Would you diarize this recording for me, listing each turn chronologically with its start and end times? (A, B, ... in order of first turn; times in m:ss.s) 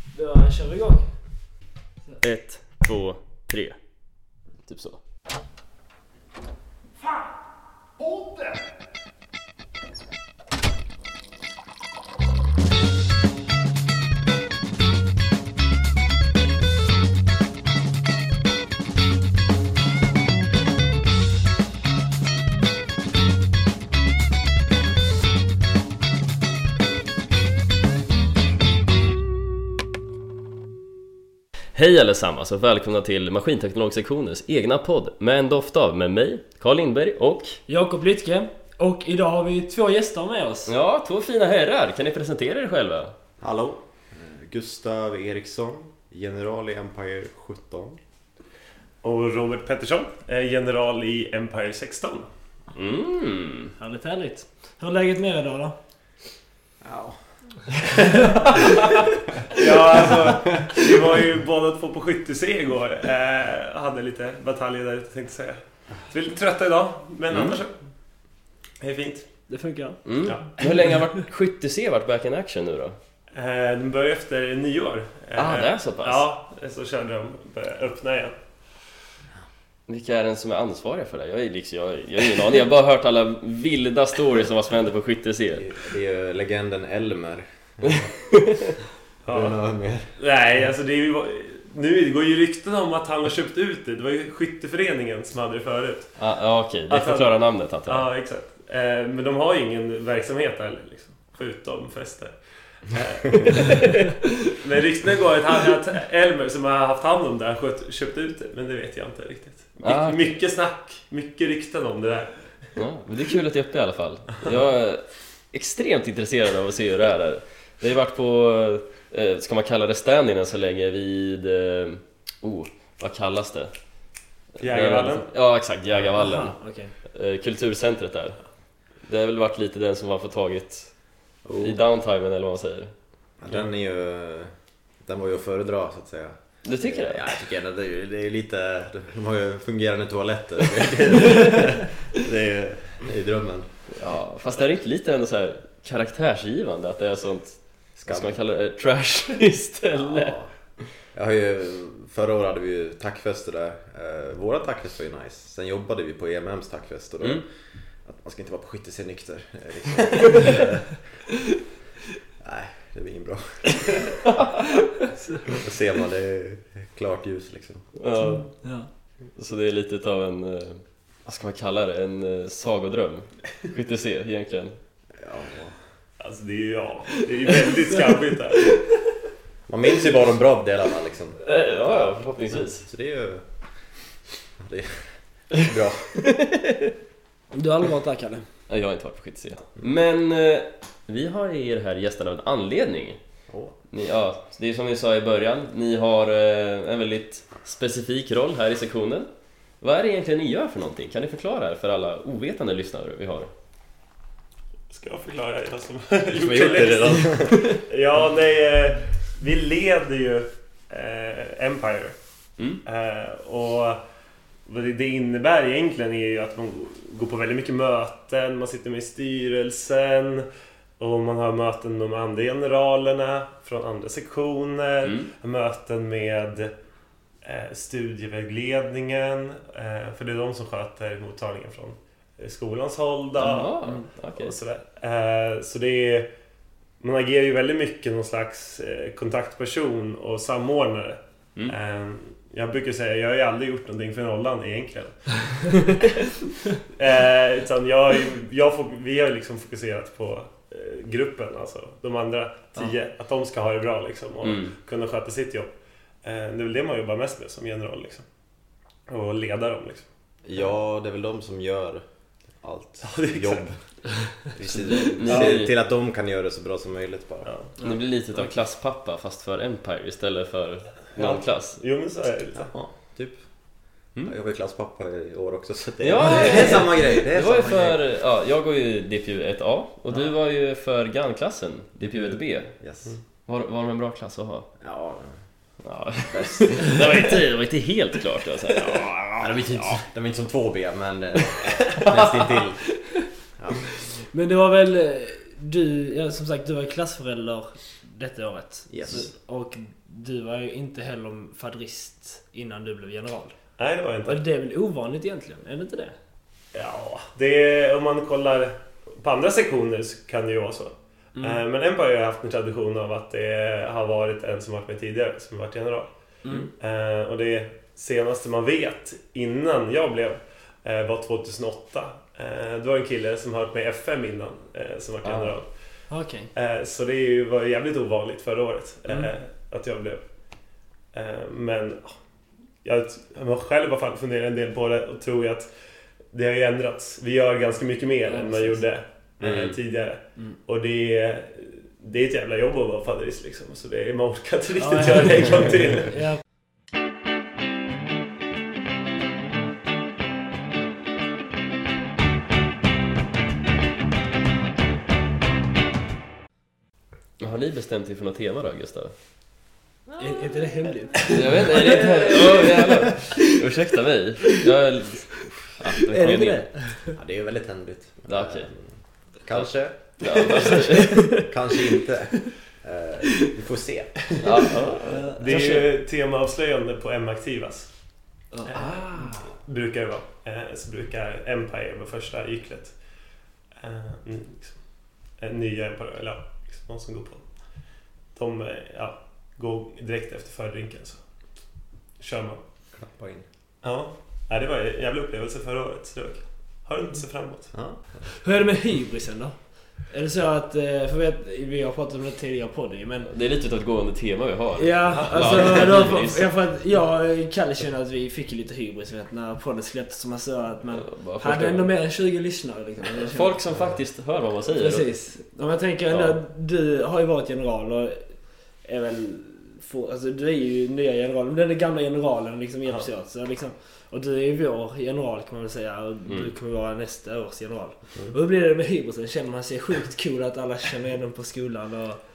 0:00.1-0:01.1 A
0:02.2-0:03.8 B
0:04.7-0:05.0 B
0:08.0-0:08.5 A
0:31.7-0:37.6 B
0:37.7-0:40.7 A
0:40.7-0:43.1 B
0:43.4-0:48.0 C
0:49.0-0:52.3 D
0:52.7-0:53.7 B
0:53.8-0:55.8 A
0:56.8-0:57.2 C
0:59.5-1:07.7 D
1:07.3-1:07.6 B
1:08.8-1:09.2 D
1:09.5-1:10.0 A
1:10.0-1:13.0 B
1:10.2-1:10.5 D
1:13.3-1:18.3 D
1:15.4-1:16.3 B
1:19.9-1:25.7 B
1:25.5-1:28.1 C
1:27.9-1:28.7 B
1:29.2-1:29.5 D
1:29.3-1:30.1 C
1:30.2-1:36.1 D
1:36.2-1:38.1 B
1:36.9-1:37.3 D
1:37.9-1:42.3 D
1:42.8-1:52.3 D
1:49.8-1:50.3 B
1:52.8-2:03.7 B
2:04.6-2:06.5 B
2:04.6-2:05.2 D
2:06.1-2:06.9 A
2:07.1-2:08.4 B
2:09.0-2:10.9 B
2:11.4-2:11.8 C
2:11.6-2:12.9 B
2:13.4-2:14.5 C
2:15.0-2:23.7 C
2:16.6-2:17.3 B
2:23.9-2:30.4 B
2:28.0-2:28.4 C
2:29.9-2:30.5 C
2:31.1-2:37.4 C
2:38.0-2:41.0 C
2:42.4-2:44.2 C
2:45.5-2:47.9 C
2:48.0-2:48.5 B
2:48.4-2:48.9 A
2:49.4-2:54.8 B
2:55.2-2:55.7 C
2:56.2-2:58.8 D
2:59.7-3:03.4 C
3:01.4-3:02.8 B
3:04.6-3:06.2 C
3:06.2-3:06.9 B
3:07.5-3:08.4 A
3:08.7-3:13.2 B
3:13.5-3:13.7 C
3:13.9-3:19.3 B
3:19.8-3:23.5 B
3:24.9-3:32.1 D
3:26.3-3:27.6 C
3:32.8-3:34.0 D
3:34.6-3:40.5 D
3:41.0-3:46.7 D
3:45.0-3:45.3 B
3:47.4-3:56.3 D
3:53.4-3:54.6 B
3:57.0-4:06.2 D
4:06.9-4:15.7 D
4:14.4-4:14.7 B
4:16.2-4:18.2 D
4:19.1-4:20.0 D
4:20.4-4:22.0 C
4:22.6-4:23.7 C
4:23.0-4:23.6 D
4:24.5-4:27.5 C
4:24.6-4:25.7 B
4:25.3-4:25.6 D
4:27.4-4:27.8 D
4:27.8-4:31.8 B
4:31.2-4:32.7 D
4:32.5-4:33.4 C
4:34.2-4:38.0 C
4:36.0-4:42.7 B
4:42.0-4:43.1 C
4:43.5-4:44.7 B
4:44.8-4:45.3 C
4:45.8-4:50.0 B
4:46.3-4:47.2 C
4:49.4-4:52.8 C
4:51.9-4:52.5 B
4:53.6-4:53.8 C
4:54.3-5:03.5 A
4:58.9-4:59.3 C
5:03.8-5:04.4 D
5:04.3-5:06.1 A
5:06.7-5:16.1 D
5:11.4-5:11.6 A
5:16.4-5:16.7 A
5:16.8-5:25.7 D
5:25.2-5:25.6 B
5:26.1-5:26.5 A
5:26.5-5:30.2 D
5:31.1-5:32.1 D
5:32.8-5:35.7 D
5:36.3-5:46.2 D
5:38.3-5:38.8 A
5:39.4-5:39.7 B
5:44.8-5:46.4 A
5:57.4-5:59.1 B
6:00.2-6:03.4 A
6:01.2-6:06.7 B
6:06.0-6:07.1 A
6:07.2-6:08.9 C
6:08.3-6:08.7 B
6:09.4-6:10.0 C
6:10.2-6:11.3 B
6:10.9-6:11.5 A
6:11.5-6:14.2 C
6:14.4-6:15.6 B
6:15.0-6:15.9 A
6:15.4-6:17.9 D
6:18.5-6:18.9 A
6:18.7-6:22.9 D
6:18.8-6:19.3 B
6:23.8-6:24.7 D
6:25.4-6:27.4 D
6:28.3-6:31.2 D
6:32.2-6:32.6 D
6:32.9-6:33.4 C
6:33.8-6:37.7 D
6:37.7-6:38.0 C
6:38.3-6:39.6 A
6:40.1-6:43.3 A
6:43.2-6:46.5 B
6:44.8-6:53.6 A
6:45.1-6:45.8 D
6:51.0-6:51.9 B
6:53.1-6:55.1 B
6:54.7-7:12.2 A
6:56.1-6:56.4 B